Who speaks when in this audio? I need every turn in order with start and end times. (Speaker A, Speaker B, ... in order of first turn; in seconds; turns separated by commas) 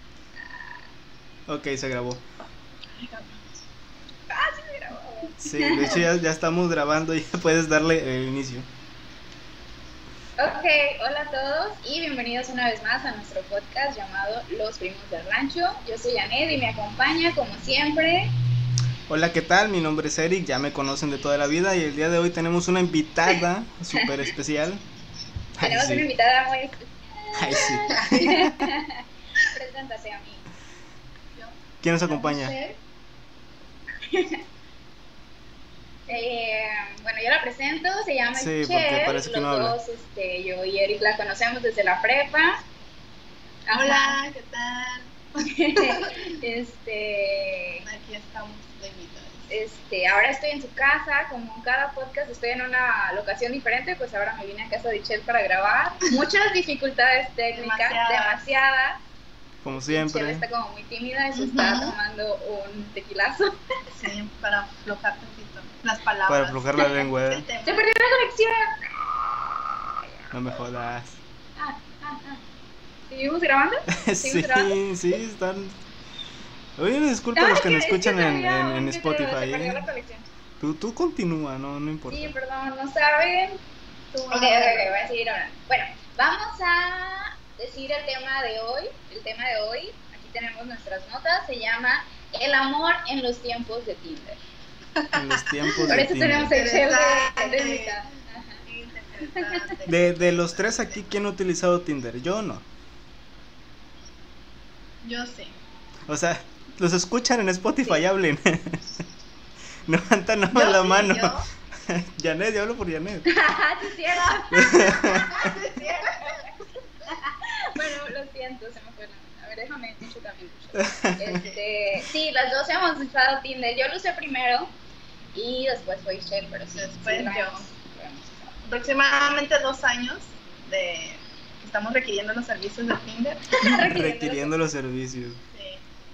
Speaker A: 1.5-2.2, Speaker B: 2.9-3.5, Speaker C: 4.3-6.0, Speaker A: 5.4-8.7, Speaker C: 10.4-18.3, Speaker A: 19.1-24.8, Speaker A: 25.6-26.1, Speaker C: 25.6-30.4, Speaker A: 27.4-28.6, Speaker B: 28.0-28.4, Speaker A: 31.8-32.5, Speaker C: 32.1-32.8, Speaker C: 34.0-34.4, Speaker C: 36.1-42.6, Speaker A: 38.4-39.8, Speaker C: 43.7-44.2, Speaker B: 43.7-45.1, Speaker C: 45.4-47.9, Speaker B: 45.7-46.1, Speaker B: 47.9-49.5, Speaker C: 49.5-59.0, Speaker B: 57.5-58.5, Speaker A: 59.6-60.5, Speaker C: 59.7-63.6, Speaker B: 61.3-62.0, Speaker B: 63.9-67.8, Speaker A: 66.3-67.5, Speaker C: 67.6-69.7, Speaker A: 70.3-71.2, Speaker C: 71.6-72.4, Speaker C: 73.1-74.8, Speaker A: 73.9-75.7, Speaker A: 76.8-79.8, Speaker C: 77.3-80.2, Speaker A: 80.6-82.3, Speaker C: 82.1-83.6, Speaker B: 84.1-85.1, Speaker C: 84.3-94.4, Speaker B: 95.0-98.0, Speaker A: 95.1-96.5, Speaker C: 95.9-98.6, Speaker B: 98.7-100.9, Speaker C: 99.3-99.6, Speaker A: 99.9-102.6, Speaker B: 105.0-105.5, Speaker A: 106.1-109.0, Speaker A: 109.8-113.2, Speaker B: 110.5-111.5, Speaker C: 113.2-124.7, Speaker A: 114.5-115.4, Speaker B: 115.1-116.5, Speaker A: 120.7-121.4, Speaker C: 125.3-128.6, Speaker B: 126.7-127.7, Speaker B: 128.7-133.6, Speaker C: 133.6-134.5, Speaker A: 133.6-135.4, Speaker B: 135.5-135.8